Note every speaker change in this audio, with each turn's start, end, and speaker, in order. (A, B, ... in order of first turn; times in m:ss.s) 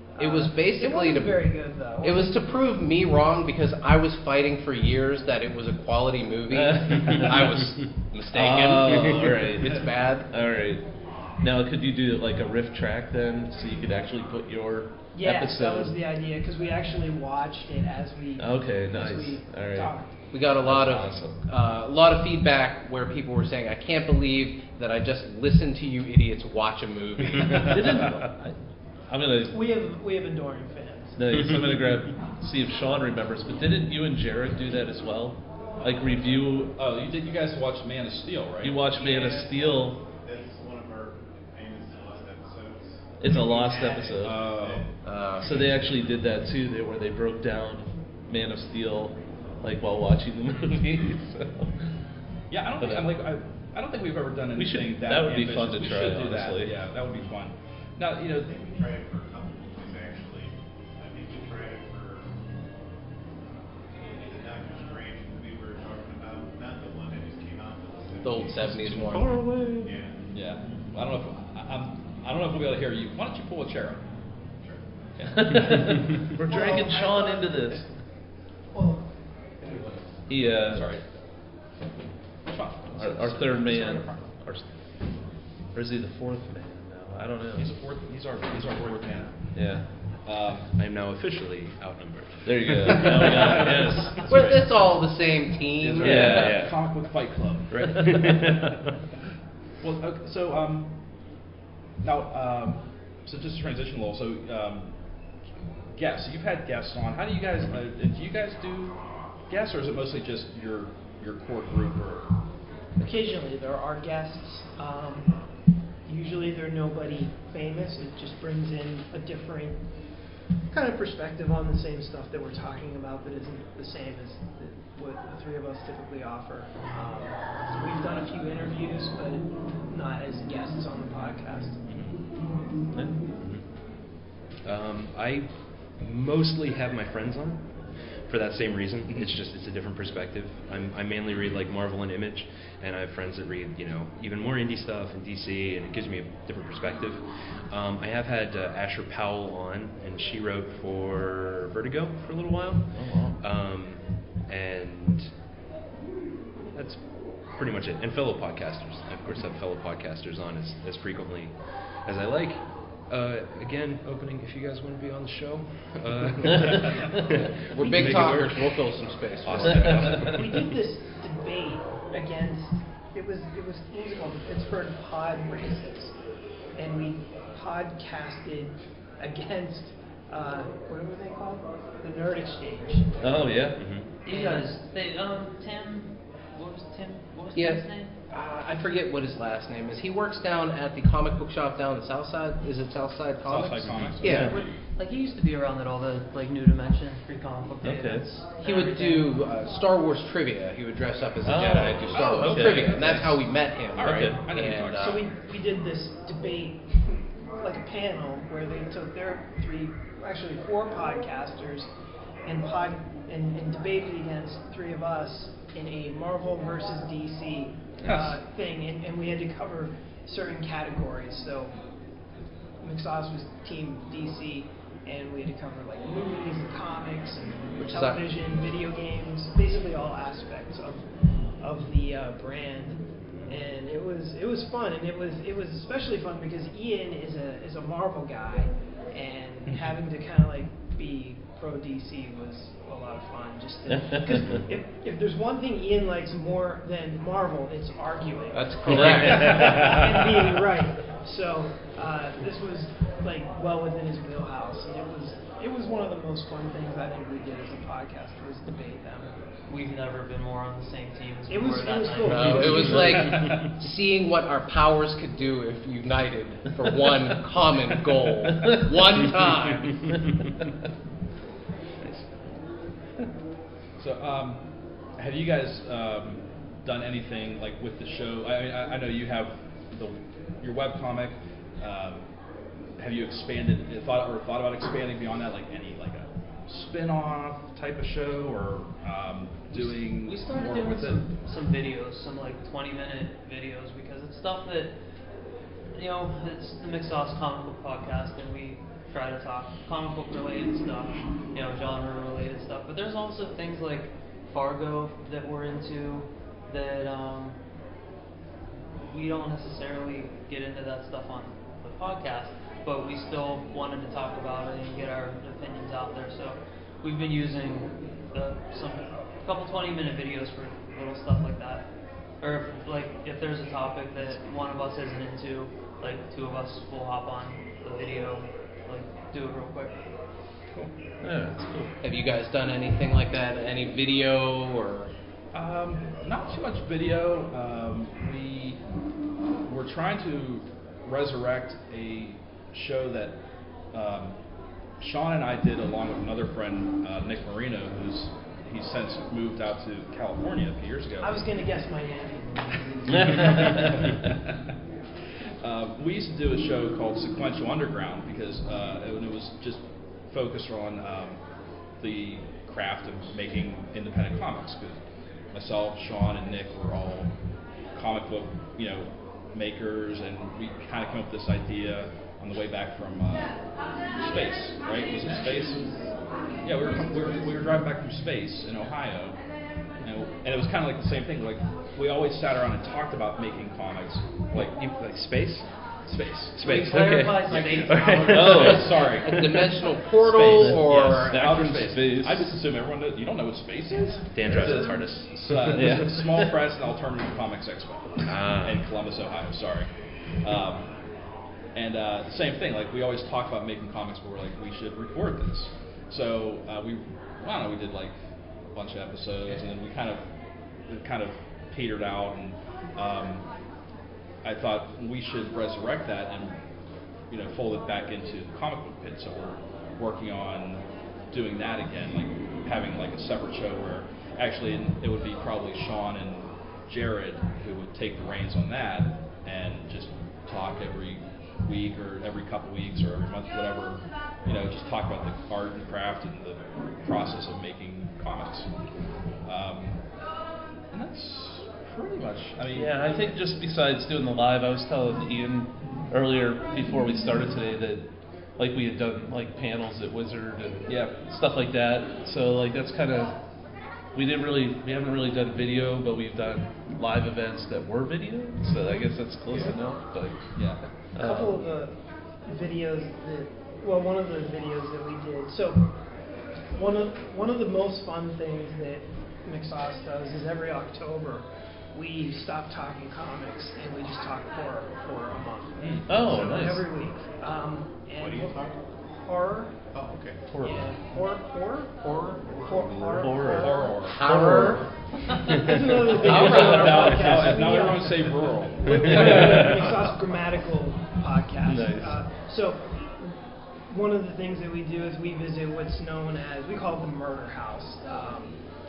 0:00.2-0:02.4 A
0:00.2-0:10.3 B
0:06.5-0:10.8 C
0:11.4-0:16.0 C
0:15.1-0:20.2 A
0:18.4-0:19.9 C
0:20.3-0:28.1 B
0:20.6-0:21.4 C
0:27.5-0:28.6 C
0:29.1-0:29.6 C
0:29.5-0:31.4 A
0:31.2-0:36.7 C
0:36.8-0:38.8 D
0:38.6-0:40.0 C
0:38.9-0:39.6 A
0:40.1-0:45.0 E
0:43.2-0:44.5 C
0:43.3-0:44.9 D
0:43.3-0:44.0 A
0:45.0-0:45.6 B
0:45.4-0:51.9 C
0:52.5-0:58.5 D
0:52.8-0:53.1 C
0:54.6-0:56.8 C
0:58.4-1:02.4 E
1:03.5-1:08.7 E
1:08.2-1:09.4 B
1:08.8-1:09.9 C
1:09.8-1:10.2 E
1:10.3-1:14.0 D
1:15.2-1:16.0 D
1:15.3-1:17.9 C
1:16.5-1:17.8 A
1:18.7-1:19.0 A
1:19.6-1:20.2 E
1:20.3-1:20.9 C
1:20.6-1:21.0 D
1:22.4-1:24.2 D
1:22.9-1:24.7 C
1:25.7-1:27.8 C
1:27.6-1:29.5 D
1:29.5-1:29.9 C
1:30.2-1:30.7 D
1:30.7-1:34.2 F
1:32.4-1:34.2 C
1:33.8-1:34.7 D
1:34.2-1:36.5 B
1:35.8-1:38.5 D
1:36.0-1:36.6 C
1:36.0-1:36.9 F
1:37.7-1:38.8 F
1:39.8-1:41.0 D
1:42.0-1:44.9 D
1:45.9-1:52.3 D
1:53.0-1:55.3 A
1:56.0-1:59.8 A
2:00.7-2:11.8 A
2:11.9-2:12.2 D
2:12.9-2:13.2 C
2:13.4-2:13.6 F
2:14.6-2:35.3 F
2:32.9-2:33.4 C
2:36.7-2:48.8 F
2:46.6-2:47.1 D
2:47.7-2:50.1 B
2:47.8-2:48.4 A
2:49.4-2:50.7 F
2:50.2-2:56.1 A
2:56.8-3:03.7 A
3:03.2-3:03.8 C
3:03.8-3:04.1 F
3:04.2-3:08.1 G
3:04.3-3:04.6 A
3:07.5-3:14.6 B
3:13.4-3:14.7 D
3:14.2-3:14.6 C
3:15.0-3:19.3 G
3:17.8-3:18.2 C
3:18.6-3:25.2 B
3:21.4-3:23.3 C
3:21.6-3:23.4 D
3:24.0-3:25.2 D
3:24.0-3:24.7 C
3:25.0-3:31.9 A
3:32.4-3:41.8 A
3:38.0-3:38.3 D
3:42.8-3:51.0 A
3:47.8-3:48.2 B
3:51.6-4:19.4 A
4:08.5-4:10.2 B
4:08.9-4:09.8 C
4:19.7-4:23.0 G
4:21.5-4:23.4 A
4:22.2-4:30.1 B
4:34.0-4:34.6 D
4:35.2-4:42.3 D
4:43.0-4:51.2 D
4:49.7-4:54.9 G
4:55.9-5:07.6 G
5:09.1-5:21.8 G
5:22.4-5:30.0 G
5:31.2-5:31.9 C
5:32.0-5:35.1 B
5:35.5-5:38.8 D
5:39.6-5:43.4 D
5:43.9-5:44.4 D
5:45.0-5:51.4 D
5:51.2-5:54.1 A
5:53.2-5:53.8 C
5:53.2-5:54.7 D
5:55.6-6:01.4 D
6:02.0-6:05.0 D
6:05.5-6:07.3 D
6:07.9-6:13.6 D
6:14.1-6:15.8 D
6:16.6-6:19.4 D
6:20.0-6:24.7 D
6:24.5-6:25.6 F
6:26.1-6:26.6 D
6:26.5-6:29.6 F
6:26.6-6:28.5 G
6:27.6-6:29.5 D
6:28.3-6:29.0 C
6:29.1-6:31.6 B
6:30.2-6:39.9 D
6:30.6-6:32.5 C
6:34.3-6:36.0 F
6:35.6-6:36.5 C
6:38.2-6:38.8 F
6:40.4-6:40.9 D
6:41.7-6:48.2 D
6:48.7-6:50.3 D
6:50.8-6:53.5 D
6:54.4-6:56.6 D
6:57.3-7:18.7 D
7:19.4-7:20.0 D
7:20.9-7:23.4 D
7:22.7-7:33.4 C
7:30.9-7:31.2 D
7:34.1-7:40.4 C
7:38.9-7:39.7 A
7:40.5-7:40.8 D
7:41.1-7:41.6 C
7:41.2-7:45.9 A
7:46.7-7:59.7 A
7:55.8-7:56.1 D
7:56.1-7:56.9 C
7:58.2-7:58.8 E
7:59.9-8:00.5 E
8:00.5-8:00.9 C
8:00.6-8:04.1 A
8:02.5-8:02.7 E
8:03.1-8:04.8 C
8:03.5-8:04.6 D
8:04.1-8:04.9 B
8:05.3-8:13.4 A
8:06.1-8:07.8 C
8:06.1-8:09.9 D
8:06.2-8:07.1 B
8:09.0-8:09.9 C
8:11.6-8:12.2 C
8:13.9-8:18.6 A